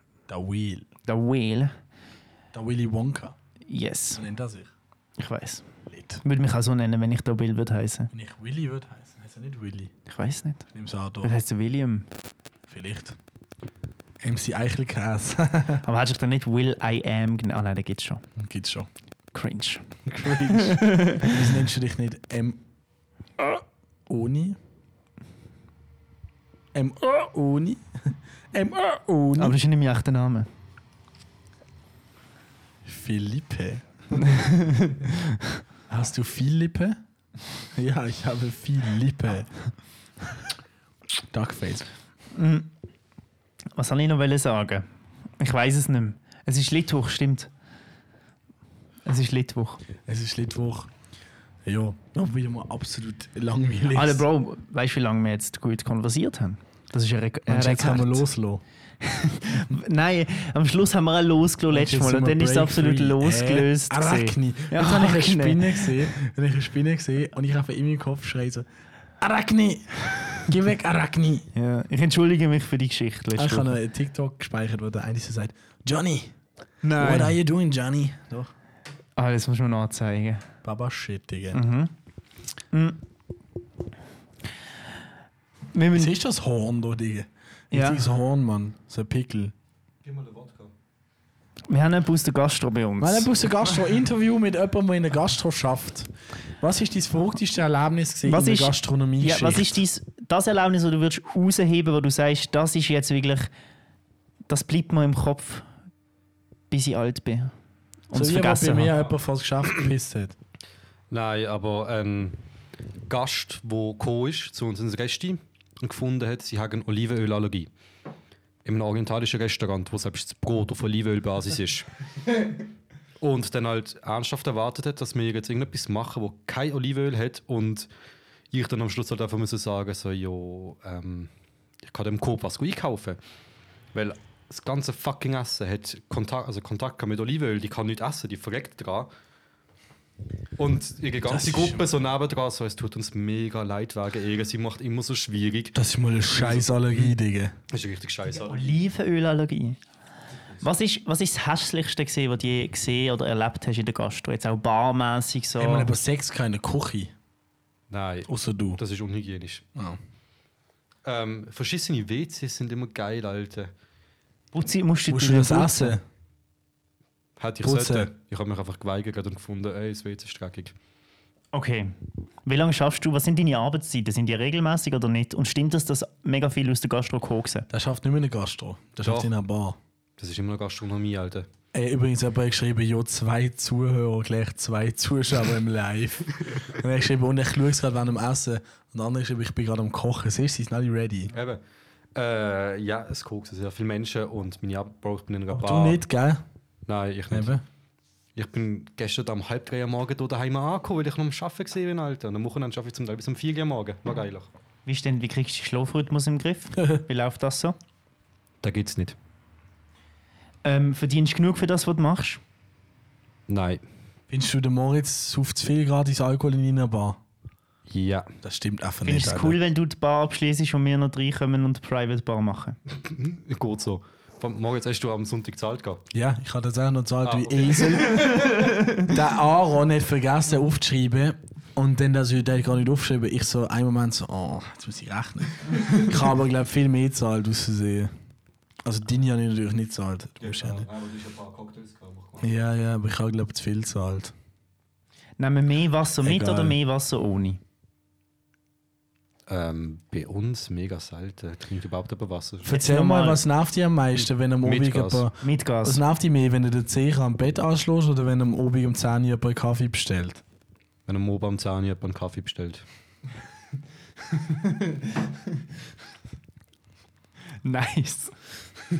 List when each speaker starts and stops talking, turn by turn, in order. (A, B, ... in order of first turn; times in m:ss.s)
0:00.3-0:00.9 A
0:01.1-0:01.7 B
0:02.5-0:03.3 A
0:03.7-0:04.2 B
0:04.1-0:04.7 A
0:05.2-0:05.6 B
0:05.9-0:06.2 A
0:06.2-0:08.1 B
0:08.1-0:09.9 A
0:10.1-0:10.6 B
0:10.7-0:11.3 A
0:11.2-0:12.1 B
0:12.7-0:13.2 A
0:14.2-0:15.8 A
0:15.8-0:18.2 B
0:18.4-0:18.9 A
0:19.3-0:21.4 B
0:20.0-0:22.6 A
0:23.4-0:24.6 A
0:26.7-0:29.6 A
0:29.4-0:30.5 B
0:32.8-0:34.4 A
0:34.2-0:35.6 B
0:35.9-0:37.0 A
0:37.7-0:39.5 A
0:41.3-0:41.9 A
0:42.3-0:42.7 B
0:43.8-0:44.8 B
0:45.4-0:47.5 B
0:49.0-0:49.8 B
0:50.1-0:50.9 A
0:51.6-0:54.2 A
0:53.9-0:58.2 B
0:57.5-0:58.6 A
0:59.0-1:06.1 B
1:01.7-1:08.6 A
1:09.2-1:11.5 A
1:11.5-1:13.7 B
1:13.4-1:16.3 A
1:16.8-1:17.4 B
1:17.0-1:18.5 A
1:19.2-1:20.4 B
1:20.6-1:21.6 A
1:21.5-1:21.9 B
1:22.7-1:23.0 B
1:25.7-1:26.1 B
1:25.9-1:29.5 A
1:27.7-1:28.0 B
1:30.0-1:30.7 C
1:31.7-1:33.3 B
1:33.0-1:36.1 A
1:36.6-1:39.8 A
1:38.2-1:43.5 B
1:44.5-1:45.6 B
1:46.7-1:47.5 B
1:48.1-1:48.9 B
1:48.1-1:50.3 A
1:51.1-1:52.4 C
1:53.1-1:57.7 C
1:58.6-2:01.9 C
2:03.2-2:07.9 C
2:08.5-2:11.3 C
2:11.8-2:13.2 C
2:13.9-2:19.1 C
2:20.6-2:25.7 C
2:21.2-2:21.9 A
2:25.7-2:27.6 A
2:26.3-2:27.2 C
2:27.7-2:28.8 C
2:28.3-2:29.8 B
2:30.6-2:35.9 B
2:35.6-2:37.1 A
2:37.9-2:39.6 C
2:38.3-2:38.8 A
2:41.0-2:43.7 C
2:44.5-2:46.0 B
2:45.1-2:46.0 A
2:47.4-2:50.7 C
2:47.6-2:48.1 A
2:51.5-2:51.9 B
2:52.4-2:57.6 B
2:57.7-2:59.8 A
2:59.0-2:59.3 C
3:00.2-3:01.5 C
3:01.7-3:11.3 A
3:11.3-3:11.6 C
3:12.1-3:16.0 C
3:15.5-3:16.4 A
3:16.8-3:17.6 C
3:17.3-3:17.6 A
3:18.4-3:24.5 C
3:24.8-3:27.8 B
3:28.6-3:29.2 C
3:30.6-3:32.4 B
3:33.5-3:33.8 C
3:34.3-3:37.2 A
3:37.9-3:38.3 C
3:38.4-3:39.6 A
3:39.0-3:42.8 B
3:42.9-3:46.0 C
3:46.1-3:58.1 A
3:47.2-3:48.6 C
3:48.6-3:48.9 B
3:58.8-4:00.9 A
4:00.4-4:02.5 C
4:02.4-4:04.3 A
4:05.4-4:07.6 B
4:06.2-4:06.8 A
4:09.5-4:12.7 C
4:12.6-4:20.4 A
4:12.7-4:13.4 B
4:14.6-4:15.3 C
4:15.4-4:16.0 B
4:21.1-4:22.8 C
4:27.6-4:28.3 B